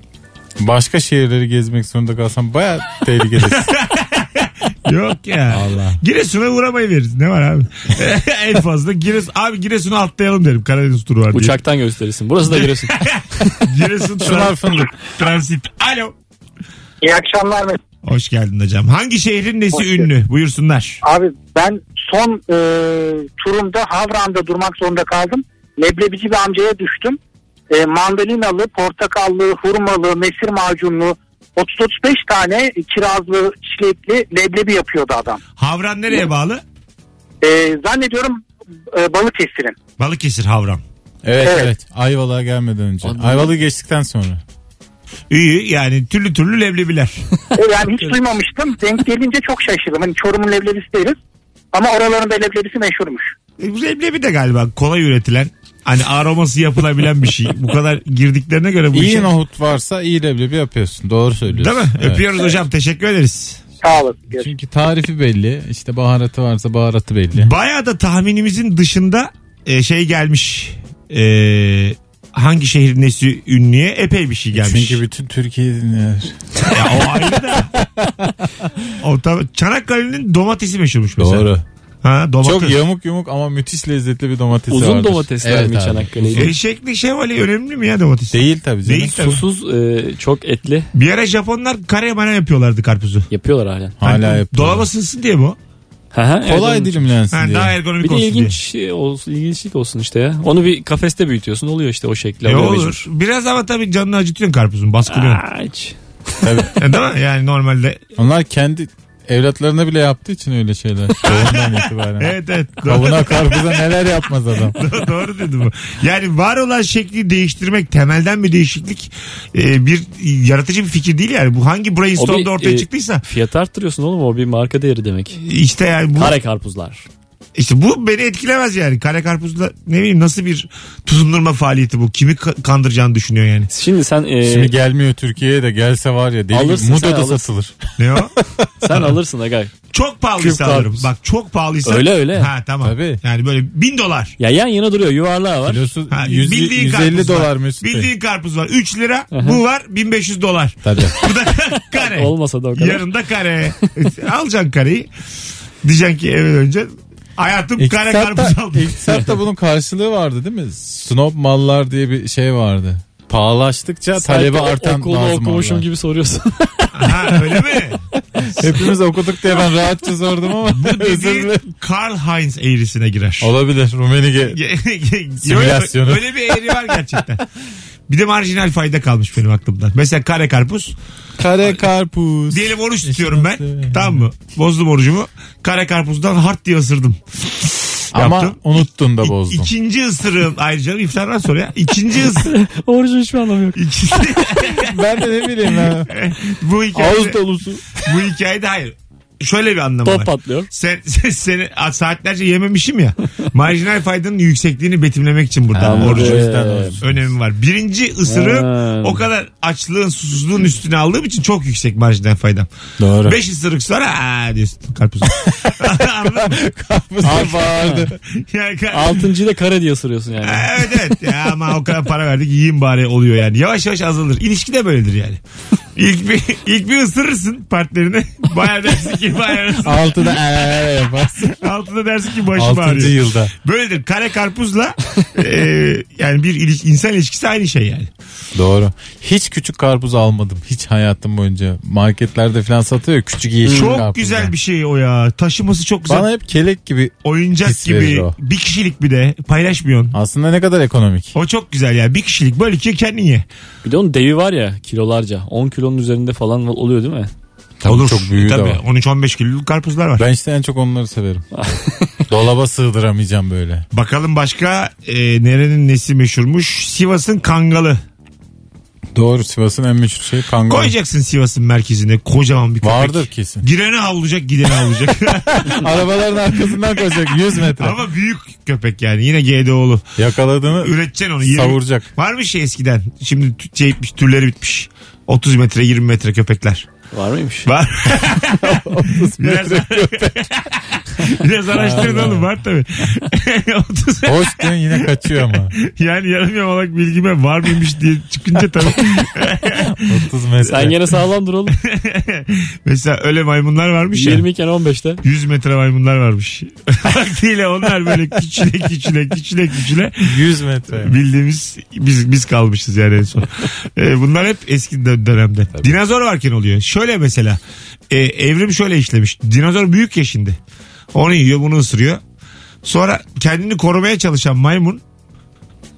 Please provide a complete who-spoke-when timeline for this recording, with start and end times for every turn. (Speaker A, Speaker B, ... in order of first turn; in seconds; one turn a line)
Speaker A: 0.6-3.7
Speaker B: 3.4-11.6
Speaker A: 5.5-6.0
Speaker C: 11.3-13.6
Speaker B: 12.5-16.1
Speaker A: 14.2-14.9
Speaker D: 17.0-17.8
Speaker B: 18.0-21.0
Speaker D: 19.7-20.1
Speaker D: 21.0-27.2
Speaker D: 27.7-35.4
Speaker B: 35.6-36.6
Speaker D: 37.4-39.8
Speaker B: 40.0-40.8
Speaker A: 41.2-44.4
Speaker D: 41.4-41.7
Speaker C: 43.0-43.5
Speaker B: 45.3-47.2
Speaker D: 47.6-51.2
Speaker C: 47.9-48.2
Speaker D: 51.7-53.3
Speaker B: 53.6-59.3
Speaker A: 58.9-62.3
Speaker B: 61.5-63.6
Speaker D: 63.8-64.5
Speaker A: 64.3-67.5
Speaker B: 67.3-75.0
Speaker A: 74.5-78.9
Speaker B: 76.7-77.7
Speaker B: 79.0-81.5
Speaker A: 81.2-81.6
Speaker B: 82.0-82.8
Speaker A: 82.4-86.5
Speaker C: 84.7-86.5
Speaker B: 86.3-89.4
Speaker A: 88.3-89.4
Speaker C: 89.2-90.9
Speaker B: 90.9-93.3
Speaker C: 93.3-94.0
Speaker A: 94.0-94.9
Speaker B: 94.0-95.6
Speaker C: 96.1-97.1
Speaker A: 96.5-97.8
Speaker B: 97.3-98.6
Speaker C: 98.0-103.0
Speaker B: 102.5-105.4
Speaker C: 105.1-106.6
Speaker A: 106.4-106.7
Speaker B: 106.8-108.0
Speaker A: 108.2-114.8
Speaker B: 111.2-114.0
Speaker B: 114.8-123.2
Speaker C: 122.2-125.4
Speaker B: 125.4-126.4
Speaker C: 126.2-127.1
Speaker B: 127.6-133.7
Speaker C: 133.7-134.7
Speaker A: 134.4-137.9
Speaker C: 136.5-137.5
Speaker B: 138.0-138.4
Speaker C: 138.8-139.7
Speaker B: 139.9-144.3
Speaker C: 140.4-141.1
Speaker C: 141.8-142.5
Speaker A: 142.8-143.2
Speaker C: 144.4-145.9
Speaker A: 145.7-148.1
Speaker B: 146.1-155.1
Speaker C: 149.3-149.6
Speaker A: 150.8-151.2
Speaker C: 151.9-153.1
Speaker B: 155.8-159.0
Speaker A: 157.8-165.9
Speaker C: 164.2-167.1
Speaker B: 166.9-168.0
Speaker A: 168.4-171.6
Speaker B: 170.7-173.5
Speaker A: 173.4-174.6
Speaker B: 174.5-177.4
Speaker A: 175.4-177.2
Speaker B: 178.1-180.9
Speaker A: 181.4-184.2
Speaker B: 182.5-192.5
Speaker A: 188.1-189.7
Speaker C: 192.4-193.8
Speaker B: 193.8-195.0
Speaker A: 194.8-196.1
Speaker B: 196.1-197.4
Speaker A: 196.9-197.9
Speaker B: 198.0-206.5
Speaker C: 200.0-200.7
Speaker A: 205.8-207.3
Speaker C: 205.8-207.0
Speaker B: 207.0-212.7
Speaker C: 208.3-209.2
Speaker A: 213.0-213.4
Speaker B: 213.2-216.6
Speaker A: 215.4-218.2
Speaker C: 217.2-218.1
Speaker B: 218.3-219.3
Speaker C: 218.9-220.7
Speaker B: 220.4-225.4
Speaker B: 226.0-230.4
Speaker A: 229.8-231.6
Speaker B: 231.5-238.1
Speaker A: 232.6-233.5
Speaker A: 238.6-244.5
Speaker B: 243.7-246.3
Speaker C: 243.7-244.0
Speaker A: 246.1-248.3
Speaker B: 247.2-250.1
Speaker A: 250.1-251.3
Speaker B: 251.3-253.5
Speaker C: 253.8-257.3
Speaker A: 257.8-258.8
Speaker B: 257.9-260.3
Speaker A: 260.2-261.5
Speaker C: 261.5-262.2
Speaker A: 262.3-263.9
Speaker B: 263.9-268.0
Speaker A: 269.1-270.9
Speaker B: 270.7-276.0
Speaker A: 272.8-273.7
Speaker A: 275.5-278.0
Speaker B: 277.8-280.1
Speaker A: 280.2-282.1
Speaker B: 280.8-286.9
Speaker C: 287.1-287.7
Speaker B: 287.7-295.1
Speaker A: 288.1-290.5
Speaker A: 291.7-292.5
Speaker C: 291.9-292.3
Speaker A: 294.2-295.8
Speaker B: 295.7-300.2
Speaker A: 299.8-301.0
Speaker C: 300.6-301.8
Speaker B: 301.8-304.5
Speaker C: 304.1-305.2
Speaker B: 305.2-310.4
Speaker A: 310.2-311.2
Speaker B: 311.0-317.6
Speaker B: 318.1-320.6
Speaker B: 321.1-322.2
Speaker B: 322.8-325.0